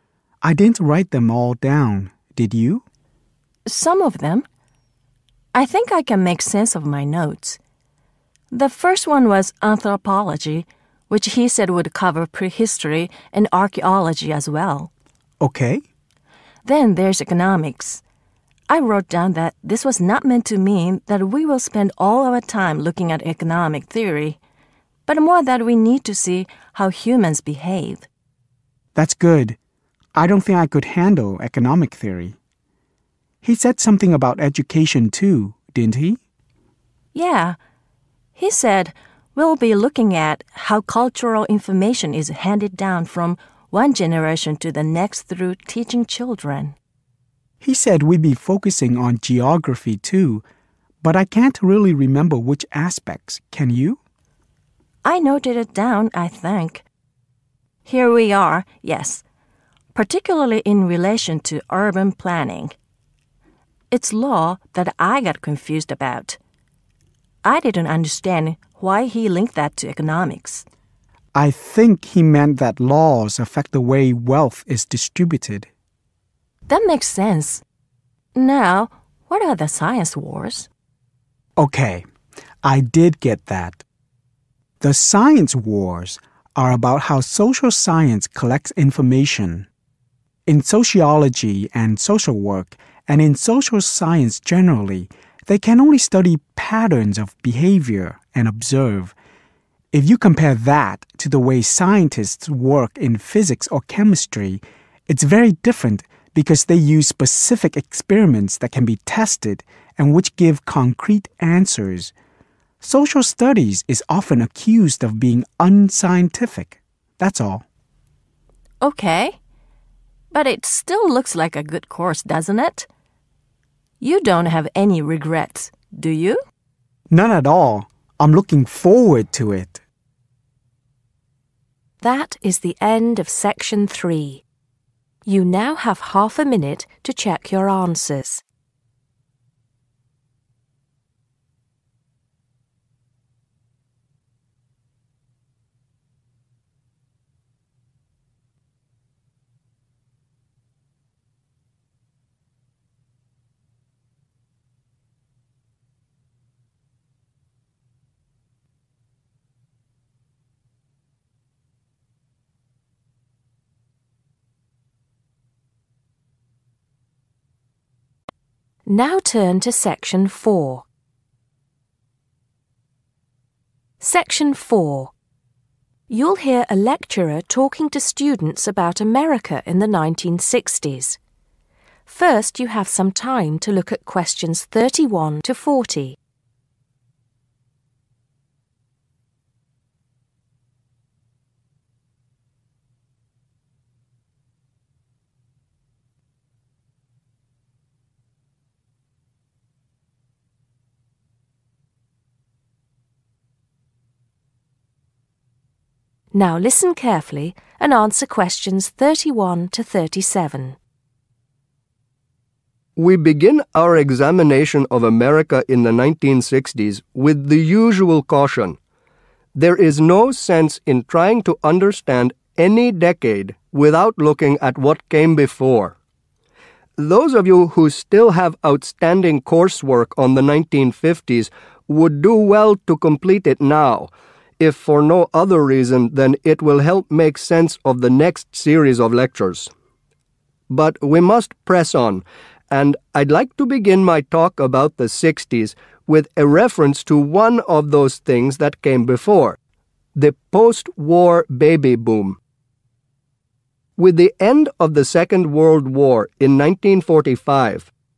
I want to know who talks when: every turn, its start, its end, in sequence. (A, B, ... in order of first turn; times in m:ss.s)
0:00.4-0:02.8 A
0:03.6-0:04.4 B
0:05.5-0:07.6 B
0:08.5-0:14.9 B
0:15.4-0:15.8 A
0:16.6-0:18.0 B
0:18.7-0:24.4 B
0:25.1-0:28.1 B
0:28.9-0:29.6 A
0:30.1-0:32.4 A
0:33.4-0:36.2 A
0:37.1-0:37.6 B
0:38.3-0:46.7 B
0:47.6-0:50.4 A
0:51.0-0:54.0 A
0:55.0-0:56.8 B
0:57.8-0:59.2 B
0:59.9-1:02.7 B
1:03.9-1:06.4 B
1:07.4-1:10.6 B
1:11.3-1:15.7 A
1:16.7-1:17.6 B
1:18.3-1:20.7 B
1:21.6-1:22.0 A
1:22.6-1:23.8 A
1:24.8-1:29.7 A
1:30.5-1:39.1 A
1:39.9-1:52.1 A
1:52.8-1:57.6 A
1:58.8-1:59.4 B
2:00.3-2:02.9 B
2:04.0-2:06.4 B
2:07.1-2:09.8 A
2:12.0-2:14.4 C
2:15.2-2:18.4 C
2:48.8-2:50.8 C
2:54.0-2:55.1 C
2:56.1-3:01.2 C
3:02.1-3:06.2 C
3:26.3-3:30.8 C
3:33.0-3:38.8 D
3:39.5-3:45.9 D
3:47.0-3:59.7 D
4:00.7-4:09.6 D
4:10.2-4:12.4 D
4:14.0-4:17.9 D